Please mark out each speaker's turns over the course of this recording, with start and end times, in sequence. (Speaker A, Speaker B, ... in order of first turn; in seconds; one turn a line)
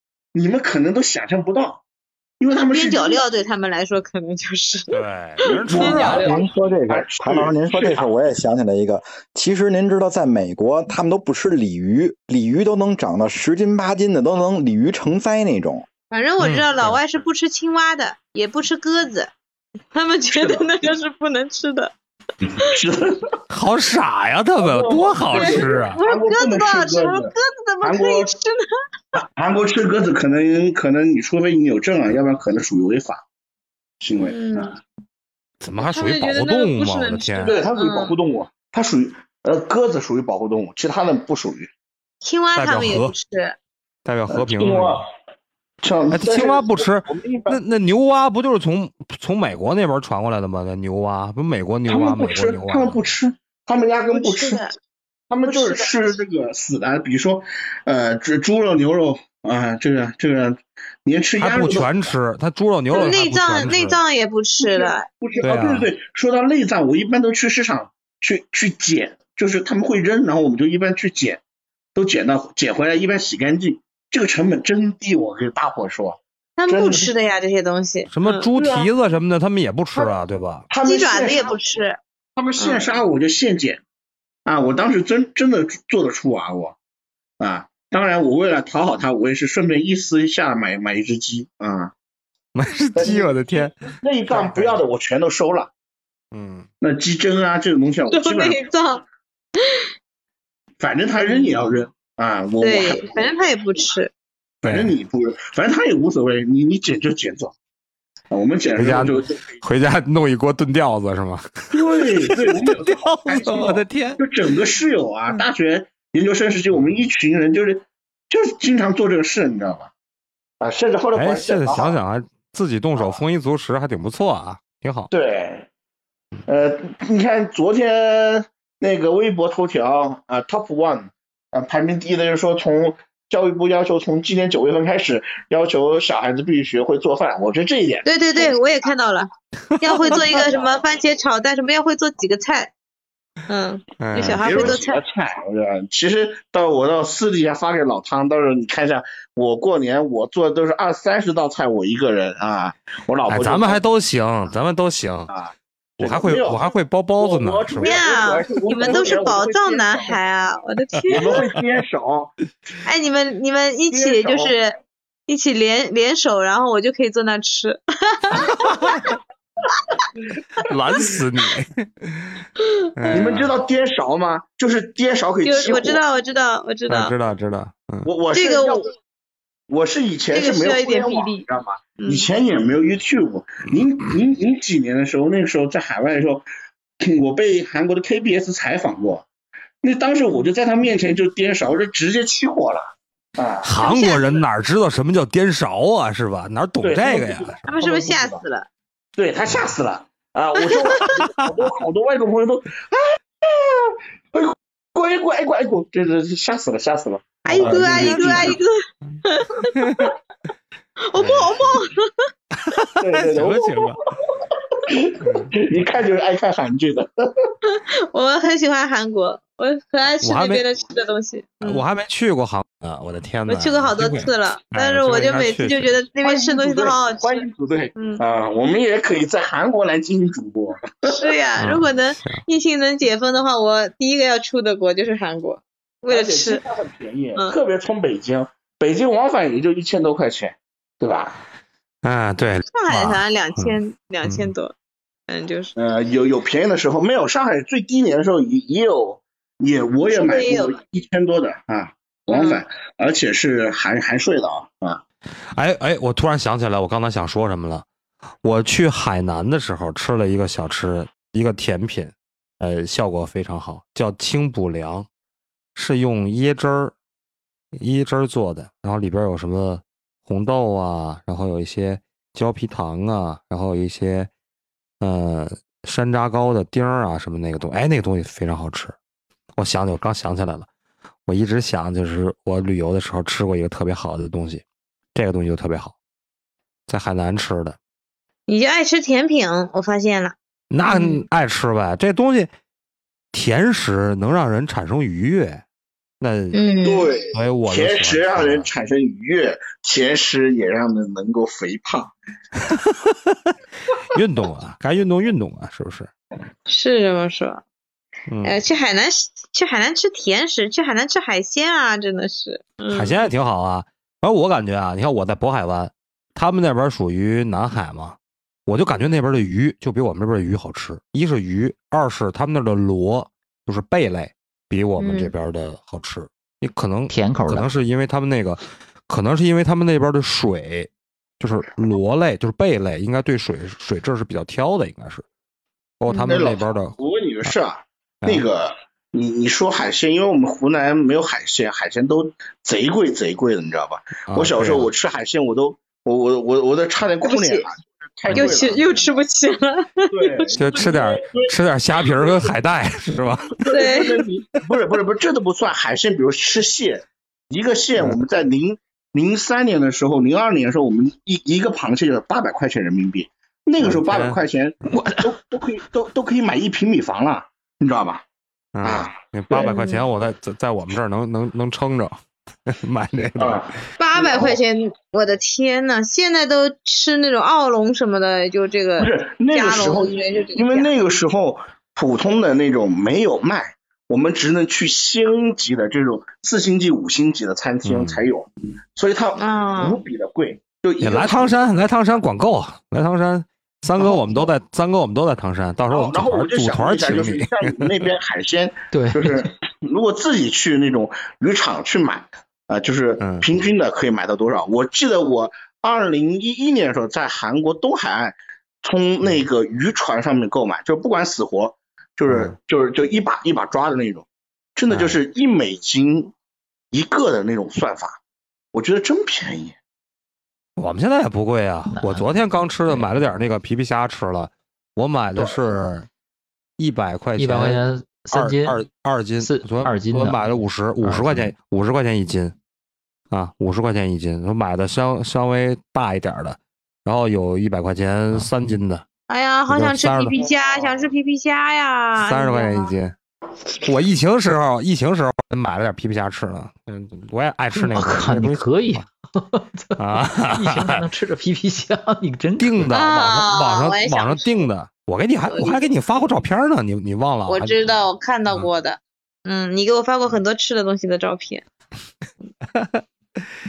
Speaker A: 0.3-1.8
Speaker A: 2.4-3.2
Speaker B: 2.7-6.4
Speaker C: 4.9-6.3
Speaker A: 5.5-8.1
Speaker D: 6.1-15.8
Speaker B: 16.1-19.3
Speaker C: 16.4-17.0
Speaker B: 19.9-21.9
Speaker A: 20.3-20.7
Speaker A: 22.6-23.3
Speaker C: 23.5-26.0
Speaker A: 24.6-28.3
Speaker B: 25.3-28.6
Speaker A: 29.3-33.2
Speaker A: 34.0-34.8
Speaker B: 34.2-34.7
Speaker C: 35.6-37.5
Speaker B: 35.8-38.1
Speaker A: 37.4-41.7
Speaker B: 42.2-43.6
Speaker C: 42.5-43.1
Speaker C: 44.0-45.0
Speaker A: 44.3-45.1
Speaker A: 45.8-47.6
Speaker C: 46.1-53.1
Speaker A: 51.9-54.6
Speaker B: 54.1-54.7
Speaker A: 55.3-62.1
Speaker B: 55.5-55.9
Speaker C: 61.4-64.0
Speaker B: 62.9-65.0
Speaker A: 64.6-71.4
Speaker C: 65.4-65.9
Speaker A: 71.9-77.1
Speaker B: 76.6-78.9
Speaker C: 78.1-80.7
Speaker A: 80.7-81.5
Speaker B: 80.8-82.0
Speaker A: 82.4-83.8
Speaker B: 82.6-82.9
Speaker A: 84.5-86.8
Speaker A: 87.4-91.9
Speaker C: 92.5-93.7
Speaker A: 93.0-95.7
Speaker C: 94.3-94.8
Speaker C: 96.3-96.7
Speaker A: 96.8-98.7
Speaker B: 98.1-99.0
Speaker B: 99.6-99.8
Speaker A: 100.8-103.3
Speaker B: 101.2-101.5
Speaker B: 102.6-104.1
Speaker C: 104.6-104.9
Speaker A: 104.6-107.5
Speaker A: 108.3-109.5
Speaker C: 108.8-114.2
Speaker A: 111.7-119.9
Speaker A: 120.6-122.0
Speaker C: 121.1-125.1
Speaker A: 125.1-125.7
Speaker A: 126.5-138.6
Speaker B: 138.1-139.3
Speaker B: 139.8-142.7
Speaker A: 140.0-140.7
Speaker B: 143.5-145.0
Speaker C: 144.0-144.7
Speaker A: 144.3-153.8
Speaker C: 153.3-155.3
Speaker A: 155.3-160.2
Speaker C: 156.0-158.0
Speaker B: 157.8-161.4
Speaker A: 161.1-162.4
Speaker B: 162.8-164.8
Speaker A: 163.9-164.5
Speaker B: 165.3-168.6
Speaker C: 168.4-169.2
Speaker C: 170.7-172.3
Speaker C: 172.9-173.6
Speaker A: 173.1-176.0
Speaker B: 175.4-177.1
Speaker C: 176.9-178.1
Speaker A: 178.0-178.9
Speaker B: 178.3-178.8
Speaker A: 179.7-186.4
Speaker B: 180.3-181.4
Speaker B: 182.0-182.3
Speaker A: 187.0-189.2
Speaker A: 189.8-193.7
Speaker C: 193.6-197.5
Speaker B: 193.8-194.4
Speaker A: 196.8-198.4
Speaker B: 197.7-198.7
Speaker A: 199.2-208.6
Speaker B: 200.7-201.2
Speaker C: 201.1-201.4
Speaker C: 207.4-208.6
Speaker B: 207.4-210.1
Speaker C: 209.7-210.1
Speaker B: 211.0-212.3
Speaker C: 211.1-211.8
Speaker C: 212.6-214.0
Speaker A: 213.0-217.5
Speaker C: 215.2-215.6
Speaker B: 217.7-221.8
Speaker C: 220.2-220.6
Speaker C: 221.6-225.9
Speaker B: 223.5-227.4
Speaker A: 226.2-231.3
Speaker B: 227.9-228.2
Speaker B: 231.0-236.6
Speaker C: 231.6-232.4
Speaker A: 236.0-241.4
Speaker C: 242.0-244.5
Speaker B: 242.7-244.7
Speaker B: 245.3-245.7
Speaker A: 245.8-255.0
Speaker B: 250.0-250.8
Speaker B: 252.3-252.6
Speaker C: 255.5-257.9
Speaker C: 258.4-265.1
Speaker C: 265.7-266.9
Speaker C: 267.7-274.3
Speaker C: 275.0-278.9
Speaker C: 279.6-280.7
Speaker C: 281.3-284.6
Speaker C: 285.1-285.9
Speaker C: 286.9-287.8
Speaker B: 288.5-290.3
Speaker C: 290.7-292.5
Speaker B: 290.9-291.2
Speaker C: 293.3-295.6
Speaker C: 296.2-296.6
Speaker B: 296.5-297.1
Speaker A: 296.8-302.1
Speaker C: 297.3-298.7
Speaker C: 302.6-303.5
Speaker C: 304.1-306.1
Speaker B: 306.7-307.6
Speaker C: 308.3-308.5
Speaker B: 308.4-313.2
Speaker C: 312.9-335.2
Speaker B: 325.0-325.3
Speaker E: 327.1-327.7
Speaker C: 336.0-337.5
Speaker B: 336.1-336.4
Speaker A: 336.2-349.0
Speaker C: 344.3-344.9
Speaker B: 347.2-347.6
Speaker C: 348.3-348.6
Speaker B: 348.3-350.5
Speaker A: 350.1-351.5
Speaker C: 350.6-353.6
Speaker A: 352.1-352.5
Speaker A: 353.5-368.2
Speaker B: 353.7-354.2
Speaker C: 363.8-364.4
Speaker E: 364.9-365.3
Speaker C: 368.7-373.8
Speaker A: 368.8-369.7
Speaker B: 369.7-370.0
Speaker A: 373.4-374.5
Speaker B: 374.0-380.9
Speaker A: 379.0-391.6
Speaker C: 387.8-388.2
Speaker B: 389.4-390.0
Speaker C: 391.0-398.0
Speaker A: 395.9-416.3
Speaker E: 398.9-399.4
Speaker C: 403.2-403.6
Speaker C: 412.3-412.6
Speaker C: 414.9-415.2
Speaker A: 416.9-418.2
Speaker A: 418.7-419.8
Speaker C: 420.8-426.1
Speaker E: 421.9-423.1
Speaker C: 426.8-432.5
Speaker E: 427.4-428.8
Speaker E: 429.4-430.5
Speaker E: 431.0-431.5
Speaker C: 433.3-439.0
Speaker B: 439.3-442.9
Speaker C: 439.7-440.4
Speaker C: 442.2-443.1
Speaker C: 443.8-449.1
Speaker E: 447.8-453.0
Speaker C: 450.0-451.0
Speaker C: 452.6-457.9
Speaker B: 452.9-454.5
Speaker B: 455.5-455.8
Speaker B: 457.5-461.6
Speaker C: 462.7-463.0